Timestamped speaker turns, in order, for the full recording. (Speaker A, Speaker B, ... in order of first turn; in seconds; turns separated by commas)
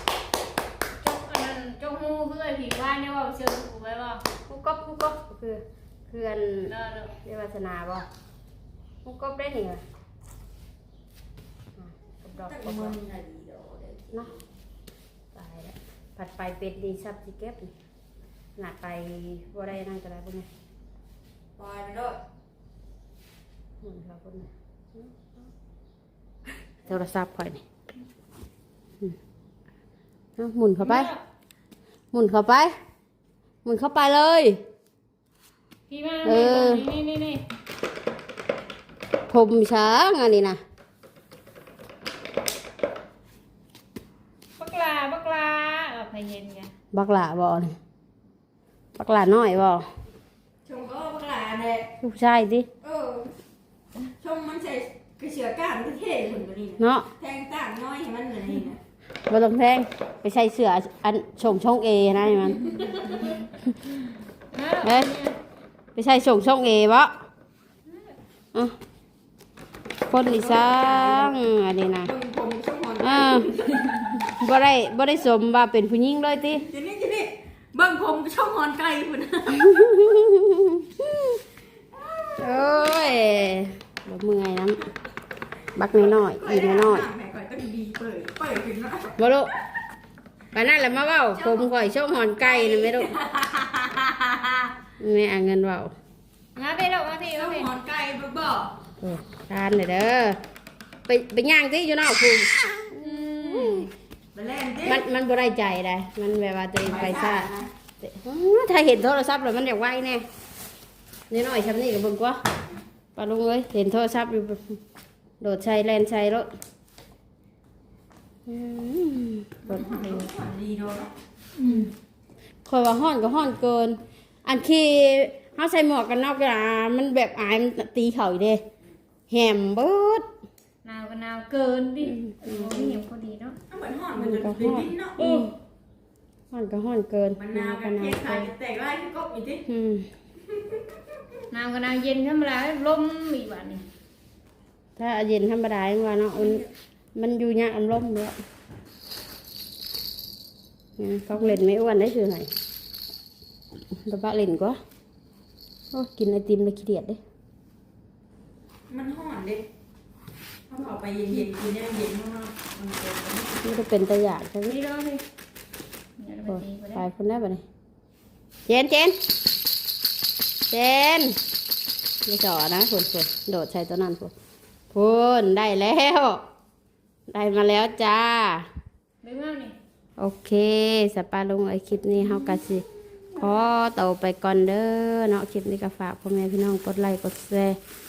Speaker A: 1.0-4.2, Speaker B: 4.5-6.7, Speaker A: 6.7-7.1, Speaker B: 7.2-8.1, Speaker B: 9.0-9.8, Speaker B: 11.8-13.0, Speaker C: 12.4-14.4, Speaker B: 15.3-17.7, Speaker B: 18.6-20.5, Speaker C: 21.6-22.2, Speaker B: 23.8-25.5, Speaker B: 26.8-27.6, Speaker B: 30.4-31.1, Speaker A: 30.8-31.2, Speaker B: 32.1-32.7, Speaker B: 33.6-34.6, Speaker A: 35.9-37.4, Speaker B: 36.2-36.9, Speaker B: 39.3-40.6, Speaker A: 44.6-46.7, Speaker B: 46.9-47.8, Speaker B: 49.0-49.9, Speaker C: 50.6-51.9, Speaker B: 52.0-52.7, Speaker C: 52.8-53.3, Speaker C: 54.2-58.8, Speaker B: 56.8-57.1, Speaker B: 59.3-62.7, Speaker C: 62.6-63.2, Speaker A: 64.5-65.4, Speaker B: 64.8-65.1, Speaker B: 65.9-67.1, Speaker A: 67.8-68.2, Speaker B: 70.1-72.1, Speaker C: 70.2-71.4, Speaker C: 72.0-74.1, Speaker B: 73.0-73.5, Speaker B: 74.4-76.7, Speaker C: 76.7-79.7, Speaker B: 79.5-81.4, Speaker C: 82.1-83.0, Speaker B: 82.4-84.8, Speaker B: 85.8-87.1, Speaker C: 86.0-89.2, Speaker B: 89.2-89.5, Speaker B: 90.5-93.1, Speaker C: 91.3-91.7, Speaker C: 92.3-94.7, Speaker B: 95.0-95.9, Speaker A: 96.5-97.7, Speaker C: 97.3-98.7, Speaker B: 99.0-100.4, Speaker B: 101.1-103.9, Speaker A: 103.0-103.9, Speaker C: 104.3-105.0, Speaker B: 104.8-107.5, Speaker C: 106.8-107.7, Speaker B: 108.0-110.2, Speaker B: 111.3-112.4, Speaker B: 113.2-114.8, Speaker B: 115.4-116.5, Speaker B: 118.5-120.3, Speaker C: 119.6-121.1, Speaker A: 121.6-121.9, Speaker B: 122.7-128.6, Speaker B: 129.3-130.3, Speaker A: 130.8-133.6, Speaker B: 132.1-133.0, Speaker C: 133.7-135.2, Speaker B: 134.2-135.5, Speaker B: 136.5-138.5, Speaker C: 137.3-139.7, Speaker B: 139.7-140.1, Speaker C: 140.5-140.9, Speaker A: 141.5-143.8, Speaker B: 145.0-146.6, Speaker C: 146.4-146.7, Speaker B: 147.2-148.4, Speaker B: 151.0-152.5, Speaker B: 153.9-154.8, Speaker B: 155.9-157.2, Speaker C: 158.9-159.6, Speaker C: 160.7-163.6, Speaker B: 163.6-164.8, Speaker A: 164.7-165.2, Speaker A: 166.2-167.0, Speaker B: 166.5-167.6, Speaker B: 168.7-169.2, Speaker B: 170.7-171.4, Speaker B: 172.2-174.3, Speaker B: 174.9-176.4, Speaker B: 177.3-178.7, Speaker A: 179.2-179.8, Speaker B: 180.2-187.8